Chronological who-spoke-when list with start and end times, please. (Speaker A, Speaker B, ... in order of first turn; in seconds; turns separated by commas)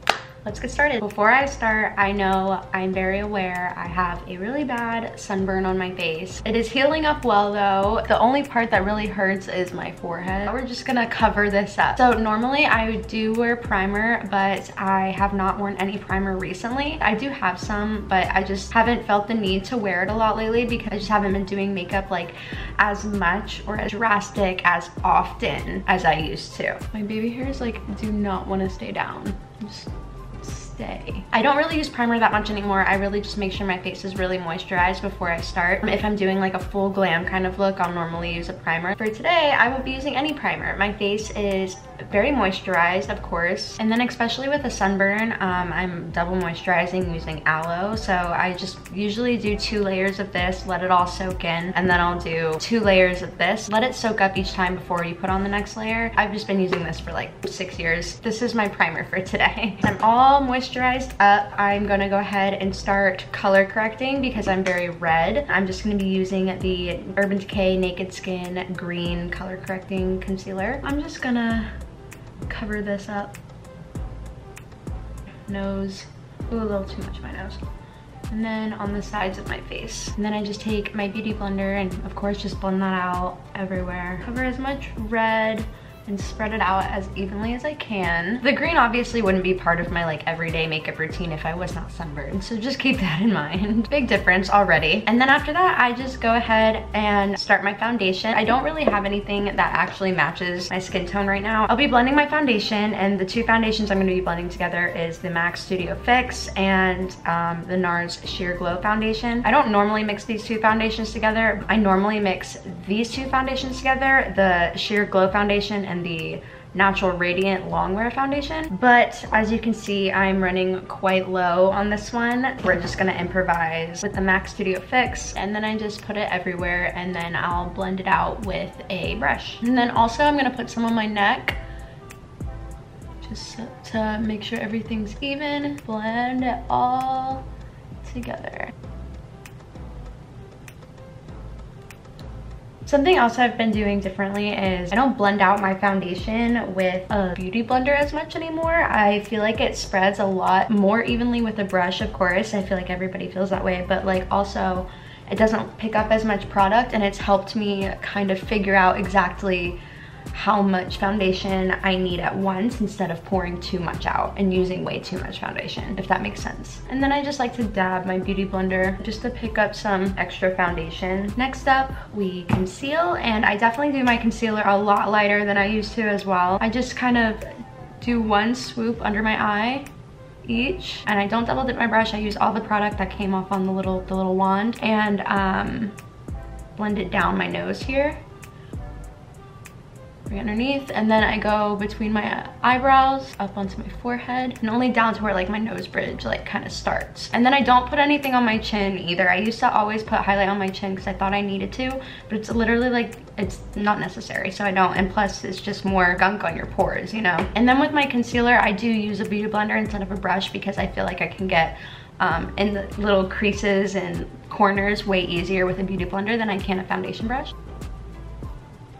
Speaker A: 0.4-71.7, Speaker A: 72.5-73.3, Speaker A: 75.5-77.6, Speaker A: 78.3-131.6, Speaker A: 133.2-137.4, Speaker A: 138.0-138.7, Speaker A: 142.8-159.8, Speaker A: 160.3-177.4, Speaker A: 178.0-179.9, Speaker A: 180.4-186.0, Speaker A: 186.8-188.2, Speaker A: 190.3-217.5